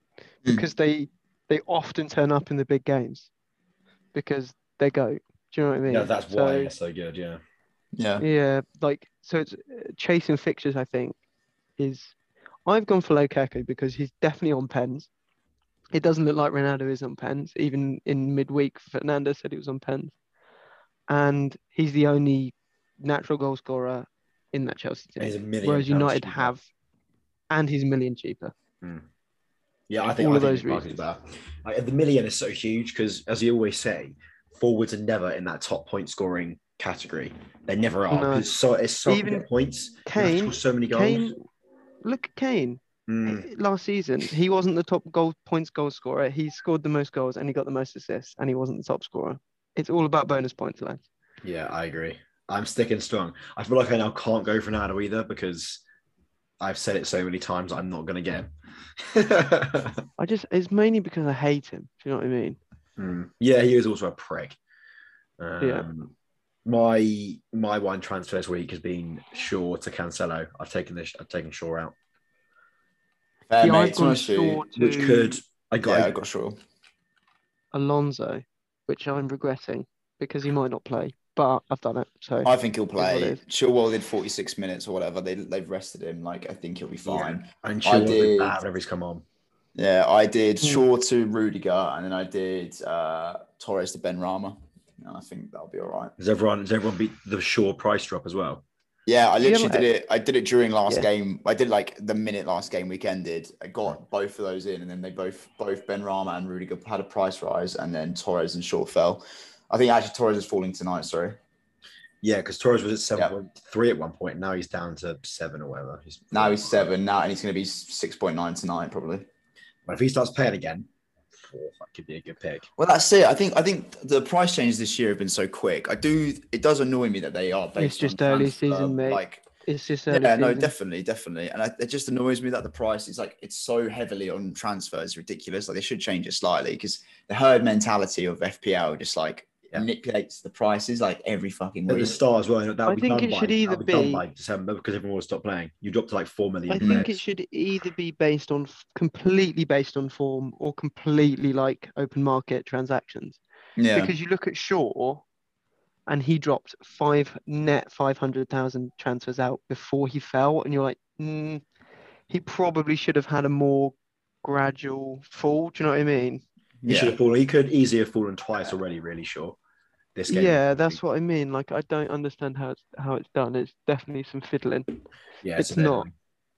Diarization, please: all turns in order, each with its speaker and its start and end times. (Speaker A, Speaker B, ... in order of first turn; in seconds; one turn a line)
Speaker A: 0.5-3.3
Speaker A: 4.1-6.7
Speaker B: 5.9-7.4
Speaker C: 8.0-8.2
Speaker A: 8.2-11.2
Speaker A: 11.8-12.1
Speaker A: 12.7-15.1
Speaker A: 15.9-20.1
Speaker A: 21.1-26.6
Speaker B: 25.2-26.5
Speaker A: 27.5-28.5
Speaker B: 29.9-41.3
Speaker A: 30.2-31.0
Speaker A: 38.1-38.5
Speaker A: 39.0-39.5
Speaker A: 40.0-41.4
Speaker A: 42.0-51.0
Speaker B: 43.1-43.5
Speaker B: 51.4-55.8
Speaker B: 56.6-60.0
Speaker A: 60.2-62.6
Speaker B: 63.0-64.6
Speaker B: 65.4-66.1
Speaker A: 65.6-65.8
Speaker B: 66.6-71.9
Speaker C: 73.5-74.7
Speaker A: 73.6-75.4
Speaker B: 74.8-76.1
Speaker C: 75.8-76.6
Speaker A: 77.7-83.4
Speaker C: 82.4-88.6
Speaker B: 87.0-89.2
Speaker C: 89.8-96.1
Speaker B: 96.2-98.6
Speaker C: 99.1-111.4
Speaker A: 99.4-99.8
Speaker B: 112.2-116.9
Speaker C: 116.3-119.3
Speaker B: 119.8-120.9
Speaker B: 121.4-122.7
Speaker C: 122.8-129.4
Speaker A: 127.8-130.7
Speaker C: 130.1-142.2
Speaker B: 141.9-147.2
Speaker A: 142.8-144.2
Speaker A: 146.7-153.4
Speaker C: 146.8-147.1
Speaker C: 153.8-154.1
Speaker A: 153.9-155.2
Speaker A: 156.1-161.6
Speaker A: 162.3-166.4
Speaker C: 166.8-167.2
Speaker B: 166.9-169.6
Speaker B: 170.1-171.0
Speaker A: 170.3-175.0
Speaker B: 175.4-176.1
Speaker A: 175.6-176.1